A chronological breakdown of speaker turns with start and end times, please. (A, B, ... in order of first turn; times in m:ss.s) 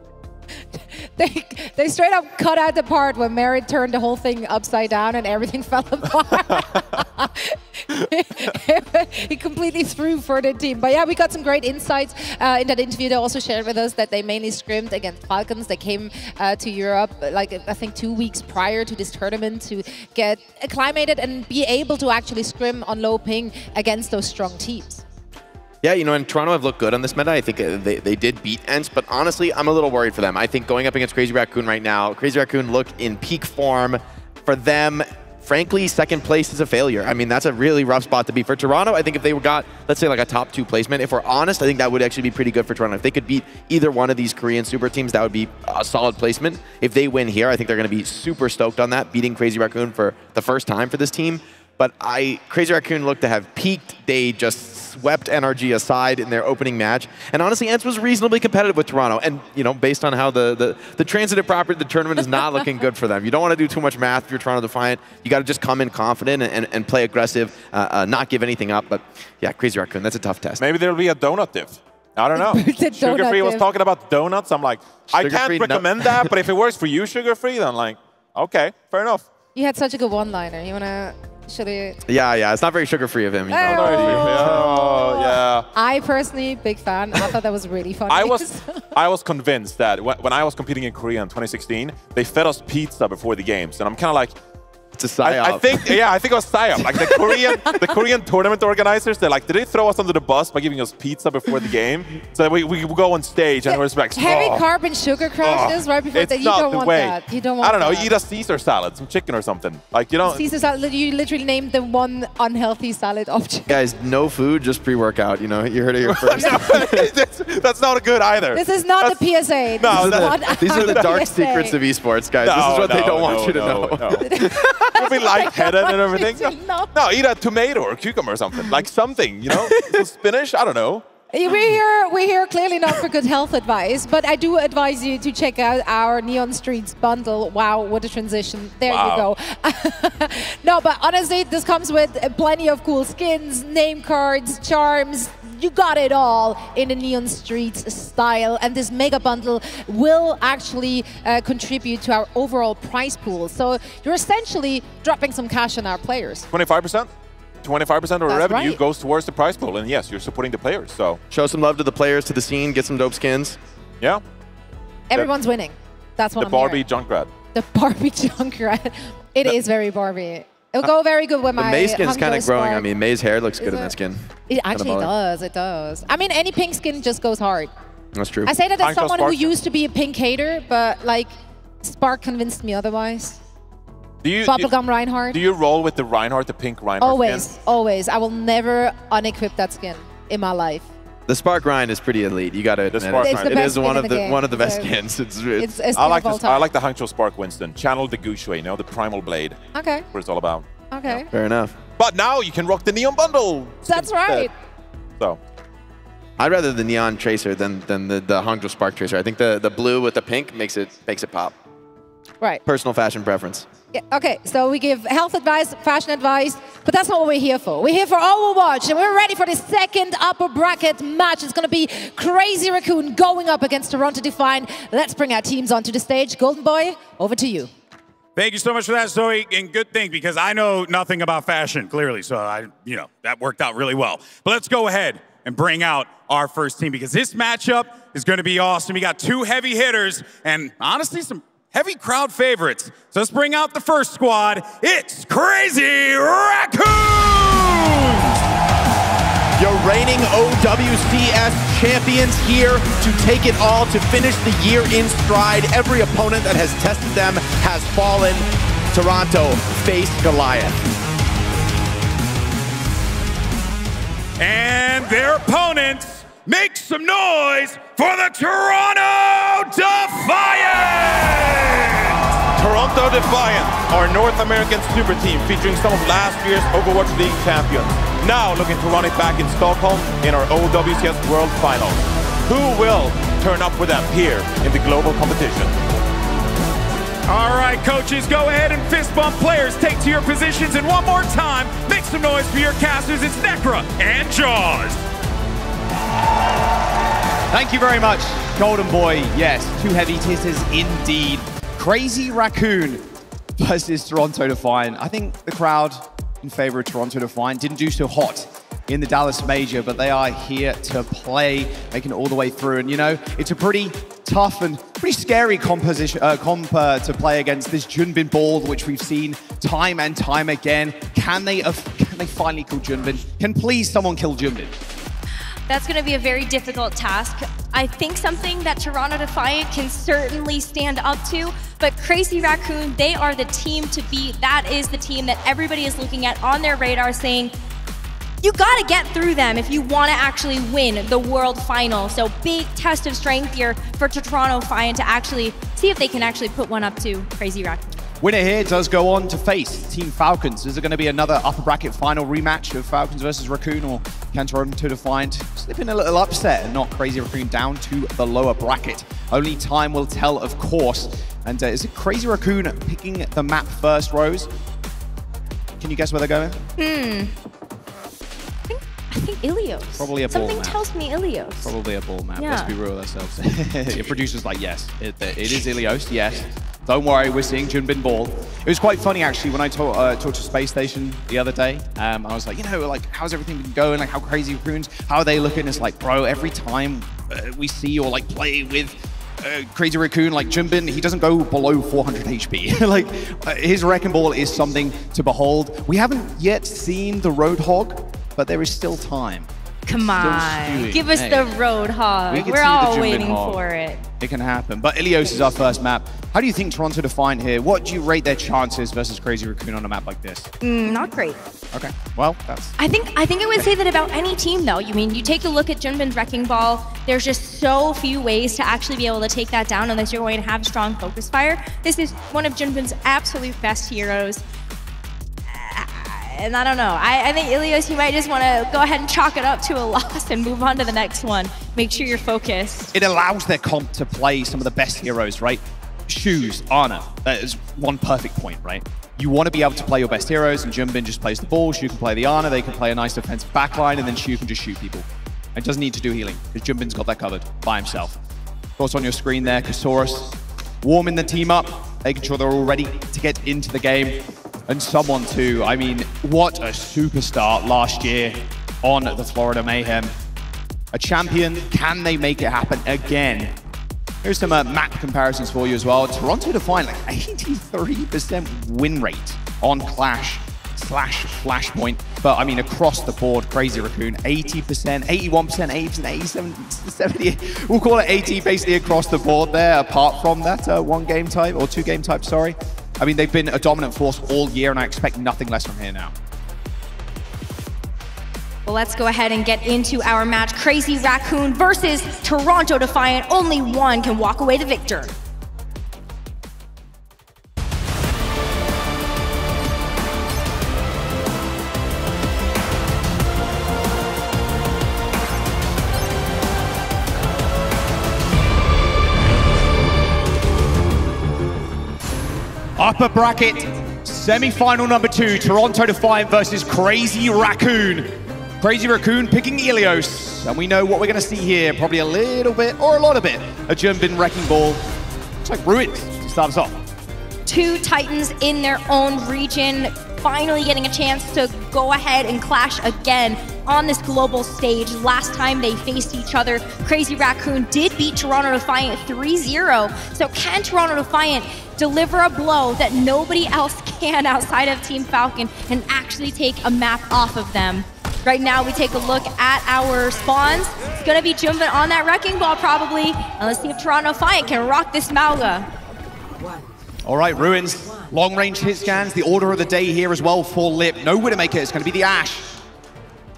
0:01.2-0:25.0 A
0:25.8-1:10.6 B
1:10.6-1:19.3 C
1:12.3-1:13.6 A
1:15.1-1:16.3 B
1:19.5-1:22.0 A
1:22.1-1:24.7 B
1:23.5-1:28.8 A
1:23.6-1:25.7 C
1:28.1-1:34.3 C
1:35.0-1:36.0 B
1:35.2-1:44.6 C
1:43.6-1:48.1 A
1:45.4-1:50.4 C
1:50.2-1:53.8 A
1:53.7-1:57.1 B
1:56.0-1:59.2 C
1:58.5-2:01.8 A
1:59.8-2:01.2 C
1:59.8-2:04.5 B
2:02.4-2:11.0 C
2:04.2-2:06.9 A
2:11.3-2:36.5 A
2:18.9-2:19.3 C
2:36.5-2:37.1 C
2:37.6-2:41.2 C
2:38.3-2:38.8 A
2:41.3-2:43.6 B
2:45.1-2:46.8 A
2:46.4-2:47.3 C
2:47.5-2:52.8 A
2:51.6-2:55.1 B
2:53.6-2:53.9 A
2:54.5-2:57.7 A
2:58.1-2:58.5 B
2:58.4-3:03.4 A
2:58.8-2:59.5 C
3:04.2-3:04.7 C
3:04.4-3:05.4 A
3:05.3-3:07.5 C
3:07.0-3:10.9 A
3:11.3-3:15.7 B
3:12.9-3:13.8 C
3:13.2-3:14.9 A
3:15.6-3:16.7 A
3:15.9-3:19.6 C
3:19.7-3:20.0 A
3:20.1-3:21.2 C
3:20.9-3:21.3 A
3:21.3-3:21.7 B
3:22.0-3:24.5 C
3:23.9-3:24.5 A
3:26.4-3:31.5 B
3:32.6-3:33.7 B
3:33.9-3:47.7 A
3:48.4-4:08.3 D
4:09.6-4:20.8 B
4:24.4-4:32.2 D
4:32.5-4:45.8 C
4:47.2-4:55.0 D
4:57.5-5:24.8 E
5:25.7-5:37.5 F
5:38.4-5:48.0 F
5:48.2-6:04.5 E
6:05.8-6:06.6 E
6:06.8-6:07.3 F
6:08.7-6:11.7 F
6:10.0-6:10.8 E
6:11.6-6:39.5 E
6:12.4-6:12.7 F
6:39.9-6:44.0 F
6:40.1-6:41.5 E
6:42.3-6:43.6 E
6:44.2-6:50.5 E
6:50.6-6:51.4 F
6:51.7-6:52.7 E
6:52.8-7:04.4 F
7:05.5-7:12.9 F
7:12.9-7:28.2 E
7:28.8-7:40.1 E
7:40.9-7:43.6 E
7:44.2-8:06.1 E
8:08.6-8:15.1 F
8:32.8-8:44.9 E
8:45.4-8:46.8 E
8:47.4-9:15.7 F
9:17.0-9:22.5 E